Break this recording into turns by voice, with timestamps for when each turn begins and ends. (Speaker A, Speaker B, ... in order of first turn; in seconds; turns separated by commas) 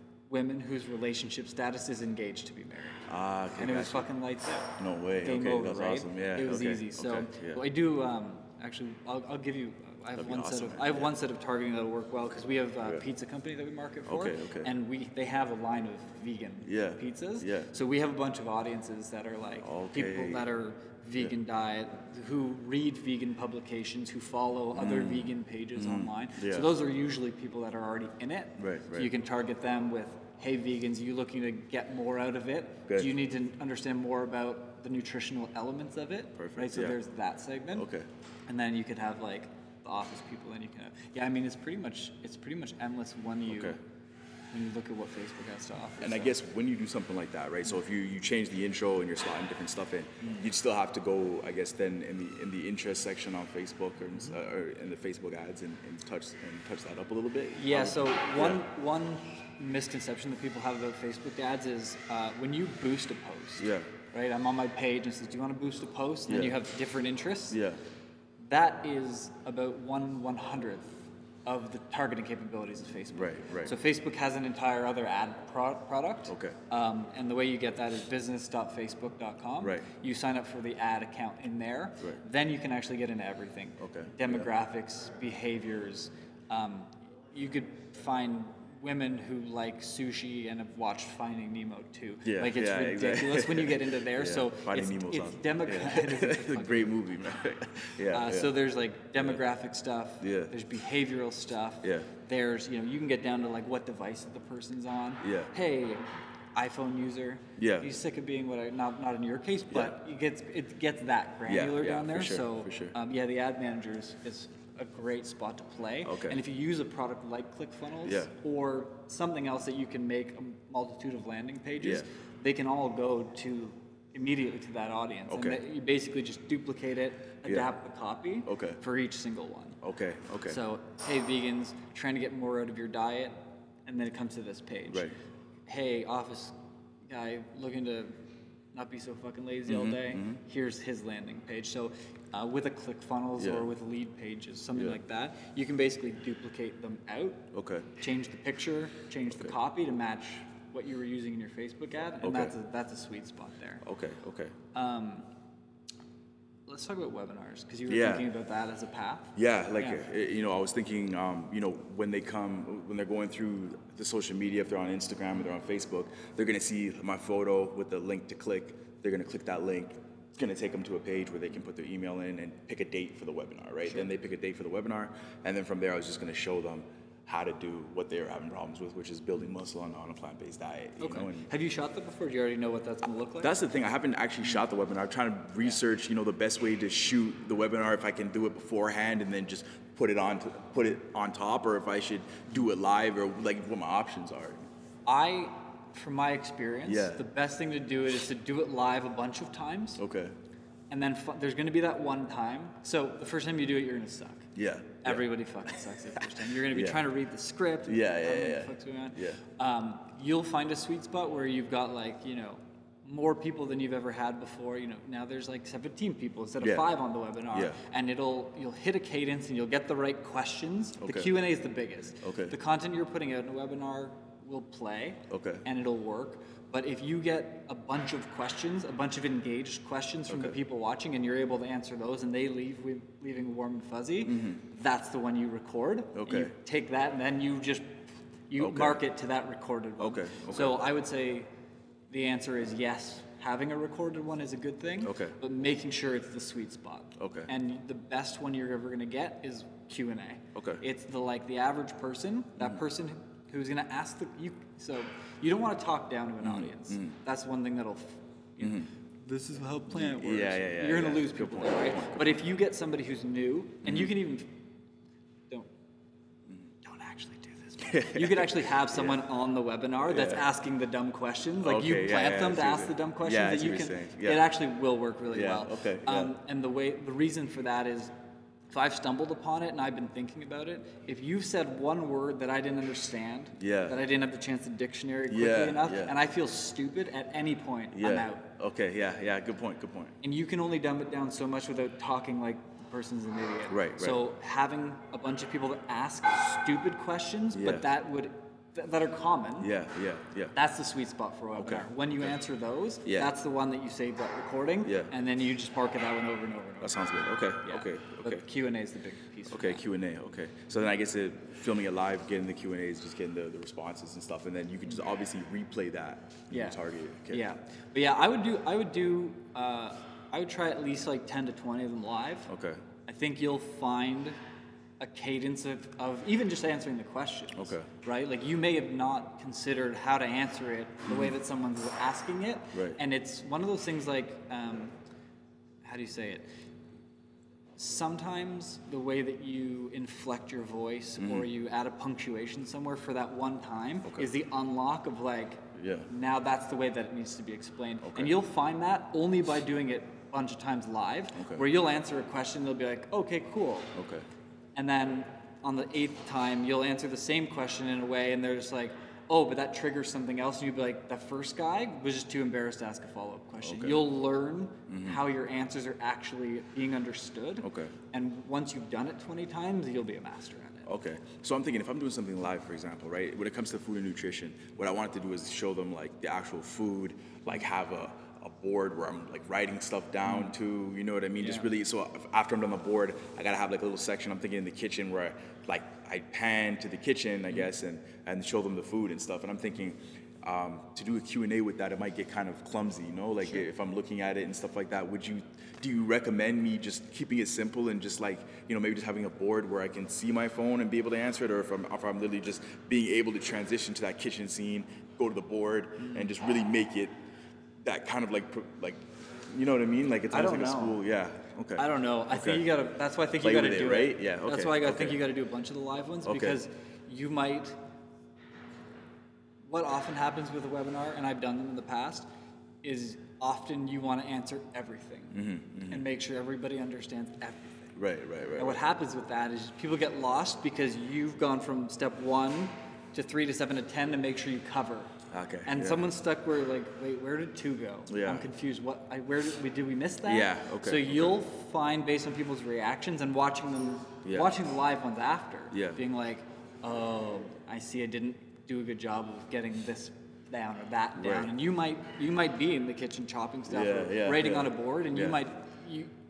Speaker A: 0.3-37.9, Speaker B: 3.1-4.1, Speaker B: 4.8-7.6, Speaker B: 10.2-11.1, Speaker B: 14.1-14.7, Speaker B: 16.6-17.7, Speaker B: 19.6-20.5, Speaker B: 24.7-26.7, Speaker B: 28.6-29.1, Speaker B: 36.4-37.0, Speaker B: 37.8-38.1, Speaker A: 38.5-43.8, Speaker B: 43.5-43.8, Speaker A: 44.5-46.3, Speaker B: 46.0-58.6, Speaker A: 57.5-67.6, Speaker B: 63.6-63.9, Speaker B: 66.3-66.6, Speaker B: 67.5-67.8, Speaker A: 68.4-96.9, Speaker B: 73.1-73.7, Speaker B: 76.3-76.6, Speaker B: 83.8-84.5, Speaker B: 92.2-98.5, Speaker A: 98.1-129.8, Speaker B: 100.2-100.5, Speaker B: 105.2-105.5, Speaker B: 107.6-107.9, Speaker B: 109.7-109.9, Speaker B: 111.5-112.9, Speaker B: 116.0-116.4, Speaker B: 118.0-118.3, Speaker B: 121.8-122.0, Speaker B: 125.3-125.6, Speaker B: 127.4-127.7, Speaker B: 128.5-128.8, Speaker B: 129.8-130.6, Speaker A: 130.4-135.1, Speaker A: 135.7-136.5, Speaker A: 137.1-138.1, Speaker A: 138.7-153.8, Speaker B: 139.7-140.4, Speaker B: 143.4-143.7, Speaker B: 147.5-147.9, Speaker B: 152.2-152.5, Speaker B: 153.8-154.5, Speaker A: 154.7-155.3, Speaker A: 156.7-160.0, Speaker B: 157.9-158.3, Speaker B: 159.3-181.5, Speaker A: 181.0-183.5, Speaker B: 183.4-194.6, Speaker A: 195.1-200.0, Speaker B: 196.8-197.2, Speaker B: 200.0-200.3, Speaker A: 200.9-204.5, Speaker B: 204.6-205.3, Speaker A: 205.0-241.5, Speaker B: 206.7-207.1, Speaker B: 207.8-209.4, Speaker B: 216.6-216.8, Speaker B: 217.5-217.8, Speaker B: 221.0-221.3, Speaker B: 222.2-222.6, Speaker B: 225.3-225.6, Speaker B: 230.3-230.6, Speaker B: 234.2-234.6, Speaker B: 236.2-236.5, Speaker B: 238.6-239.0, Speaker B: 240.0-240.8, Speaker A: 242.1-264.6, Speaker B: 245.0-245.3, Speaker B: 247.2-247.5, Speaker B: 250.5-250.8, Speaker B: 256.4-257.1, Speaker B: 258.6-258.9, Speaker B: 259.9-262.4, Speaker B: 263.8-264.1, Speaker A: 266.8-278.1, Speaker B: 267.8-269.2, Speaker B: 270.0-270.4, Speaker B: 271.6-274.5, Speaker B: 275.3-276.3, Speaker A: 278.7-288.4, Speaker B: 283.6-284.0, Speaker B: 285.3-286.1, Speaker B: 287.9-290.2, Speaker A: 290.2-299.7, Speaker B: 293.7-294.2, Speaker B: 297.5-297.8, Speaker B: 299.6-300.5, Speaker A: 300.5-309.8, Speaker B: 301.6-302.3, Speaker B: 303.0-303.3, Speaker B: 304.8-305.1, Speaker B: 306.8-308.4, Speaker B: 309.5-317.4, Speaker A: 316.5-316.8, Speaker A: 317.3-322.5, Speaker B: 322.5-322.8, Speaker A: 323.1-324.4, Speaker A: 325.0-334.9, Speaker B: 327.5-327.9, Speaker B: 331.1-331.3, Speaker B: 332.7-333.0, Speaker A: 335.8-336.4, Speaker A: 337.8-354.0, Speaker B: 341.2-341.5, Speaker B: 345.8-346.1, Speaker B: 348.0-348.3, Speaker B: 351.4-351.6, Speaker B: 353.9-354.2, Speaker A: 354.7-370.9, Speaker B: 363.6-364.1, Speaker B: 364.9-365.2, Speaker B: 367.6-367.9, Speaker B: 370.8-407.1, Speaker A: 381.4-381.7, Speaker B: 407.8-412.7, Speaker A: 410.3-411.0, Speaker A: 411.8-417.8, Speaker B: 413.4-415.2, Speaker B: 416.2-416.6, Speaker A: 419.7-422.3, Speaker A: 422.8-427.9, Speaker B: 425.3-426.1, Speaker B: 427.9-428.8, Speaker A: 428.6-435.1, Speaker B: 435.3-436.0, Speaker A: 435.6-456.1, Speaker B: 438.1-438.5, Speaker B: 440.2-441.4, Speaker B: 444.2-444.6, Speaker B: 445.7-446.0, Speaker B: 451.1-451.5, Speaker B: 453.7-455.4